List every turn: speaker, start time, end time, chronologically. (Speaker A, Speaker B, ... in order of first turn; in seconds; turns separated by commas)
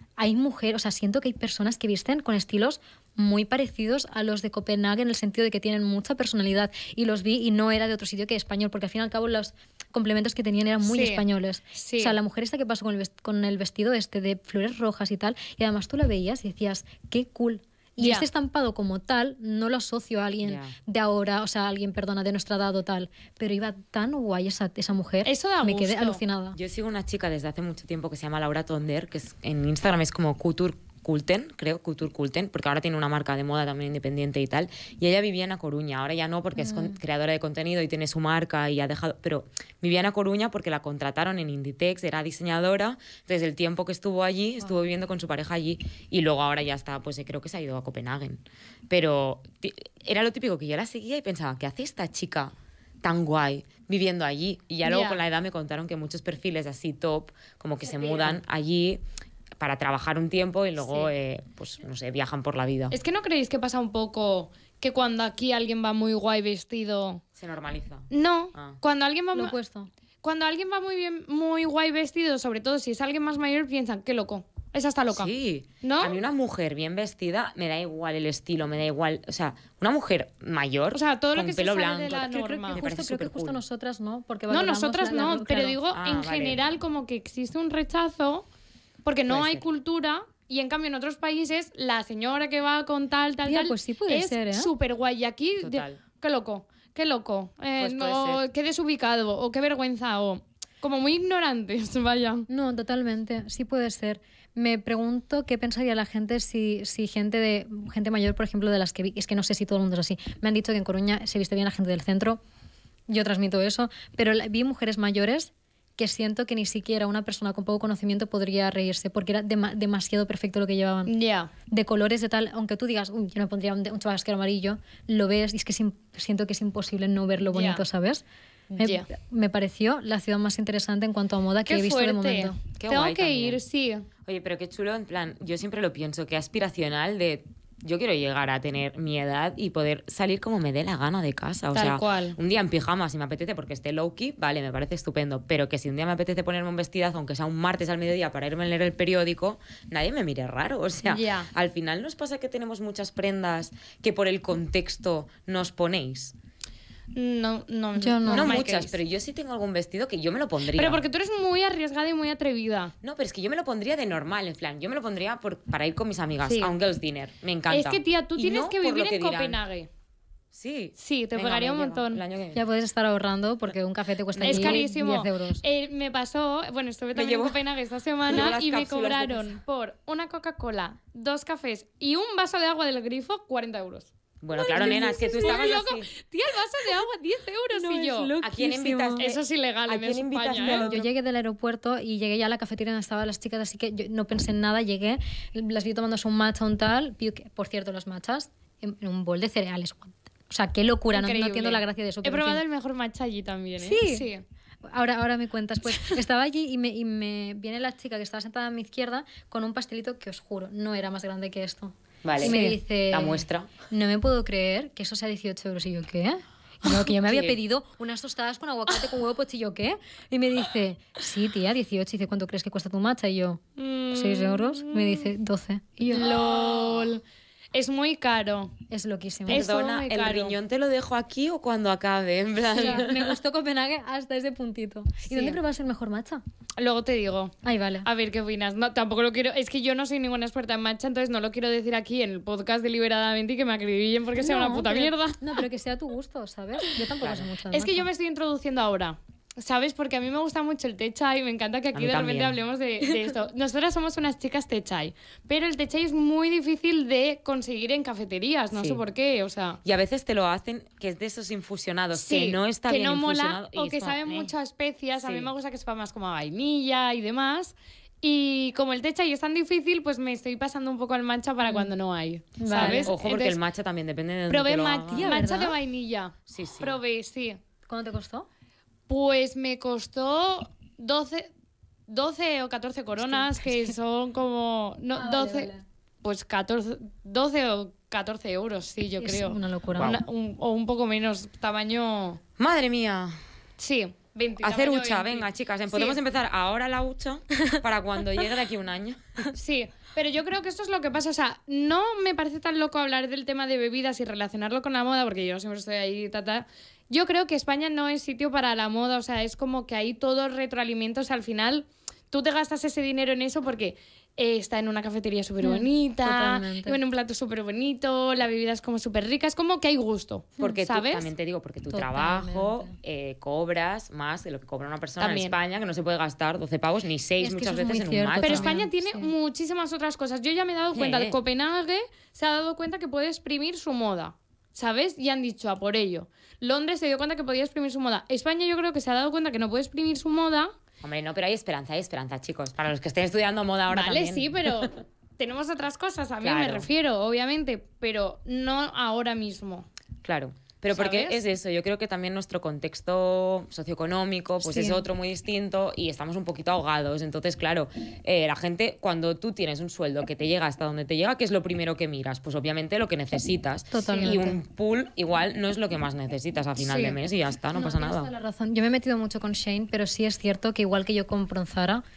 Speaker A: 0.2-26.6, Speaker B: 10.8-11.2, Speaker B: 11.8-12.2, Speaker B: 18.0-18.3, Speaker C: 20.4-20.8, Speaker B: 25.2-26.2, Speaker C: 26.6-59.0, Speaker A: 36.6-37.0, Speaker B: 54.9-55.2, Speaker B: 57.8-58.4, Speaker C: 59.6-63.0, Speaker B: 60.8-61.1, Speaker B: 62.9-67.2, Speaker C: 67.4-68.8, Speaker B: 68.1-69.6, Speaker A: 69.3-69.9, Speaker B: 70.2-76.2, Speaker C: 75.1-83.6, Speaker B: 80.9-82.8, Speaker A: 82.4-85.8, Speaker B: 84.5-88.5, Speaker C: 85.9-86.6, Speaker B: 89.0-102.5, Speaker C: 89.3-89.6, Speaker A: 93.5-94.7, Speaker C: 95.6-96.0, Speaker C: 97.8-98.4, Speaker A: 102.5-112.4, Speaker A: 113.1-121.1, Speaker B: 121.1-121.5, Speaker A: 121.7-128.2, Speaker B: 127.5-127.8, Speaker B: 128.8-129.1, Speaker A: 128.8-132.6, Speaker B: 131.7-134.1, Speaker C: 132.8-133.6, Speaker C: 134.2-156.3, Speaker B: 141.7-142.4, Speaker B: 151.1-151.5, Speaker B: 157.1-158.9, Speaker A: 158.0-158.5, Speaker C: 158.3-161.0, Speaker B: 160.7-162.9, Speaker C: 163.0-169.6, Speaker B: 166.5-166.8, Speaker B: 167.7-169.9, Speaker C: 170.5-172.6, Speaker B: 171.0-172.2, Speaker A: 172.5-175.6, Speaker C: 174.3-174.8, Speaker B: 174.4-188.3, Speaker C: 177.1-177.6, Speaker C: 178.3-179.5, Speaker C: 184.4-186.1, Speaker A: 184.8-185.7, Speaker A: 187.7-189.3, Speaker C: 188.4-191.1, Speaker B: 189.2-190.9, Speaker A: 190.8-202.6, Speaker B: 201.1-204.4, Speaker A: 203.8-204.3, Speaker A: 204.8-223.6, Speaker C: 212.2-213.7, Speaker B: 212.4-212.8, Speaker C: 217.1-217.6, Speaker B: 223.8-225.3, Speaker A: 224.1-226.4, Speaker B: 226.1-227.2, Speaker B: 227.7-228.7, Speaker A: 228.9-229.7, Speaker B: 229.5-230.6, Speaker C: 229.5-233.4, Speaker B: 232.7-233.0, Speaker A: 232.7-236.4, Speaker B: 235.3-235.6, Speaker B: 236.8-245.6, Speaker A: 237.6-238.1, Speaker A: 244.4-248.1, Speaker C: 247.2-247.5, Speaker B: 247.7-259.8, Speaker C: 251.9-252.6, Speaker C: 258.7-259.0, Speaker C: 259.8-264.5, Speaker B: 262.1-273.6, Speaker C: 265.2-265.5, Speaker A: 271.6-271.9, Speaker A: 272.6-273.1, Speaker C: 272.7-275.4, Speaker B: 274.5-277.6, Speaker A: 275.1-275.8, Speaker C: 276.5-277.0, Speaker A: 277.9-278.5, Speaker B: 279.1-281.5, Speaker B: 282.1-285.7, Speaker A: 283.2-283.9, Speaker A: 285.1-285.8, Speaker B: 286.2-292.4, Speaker A: 289.2-290.2, Speaker C: 289.9-290.2, Speaker C: 292.6-293.4, Speaker B: 293.8-296.2, Speaker C: 294.6-299.5, Speaker B: 299.6-321.3, Speaker A: 315.6-317.0, Speaker C: 320.6-328.8, Speaker A: 321.9-322.9, Speaker B: 325.2-325.6, Speaker A: 327.4-329.3, Speaker B: 328.4-340.7, Speaker C: 330.9-331.4, Speaker C: 341.0-344.9, Speaker B: 343.9-349.9, Speaker C: 346.4-346.9, Speaker C: 350.2-368.3, Speaker B: 350.9-351.4, Speaker A: 354.6-355.0, Speaker A: 363.9-364.6, Speaker B: 366.9-367.1, Speaker A: 367.8-372.0, Speaker B: 367.8-368.1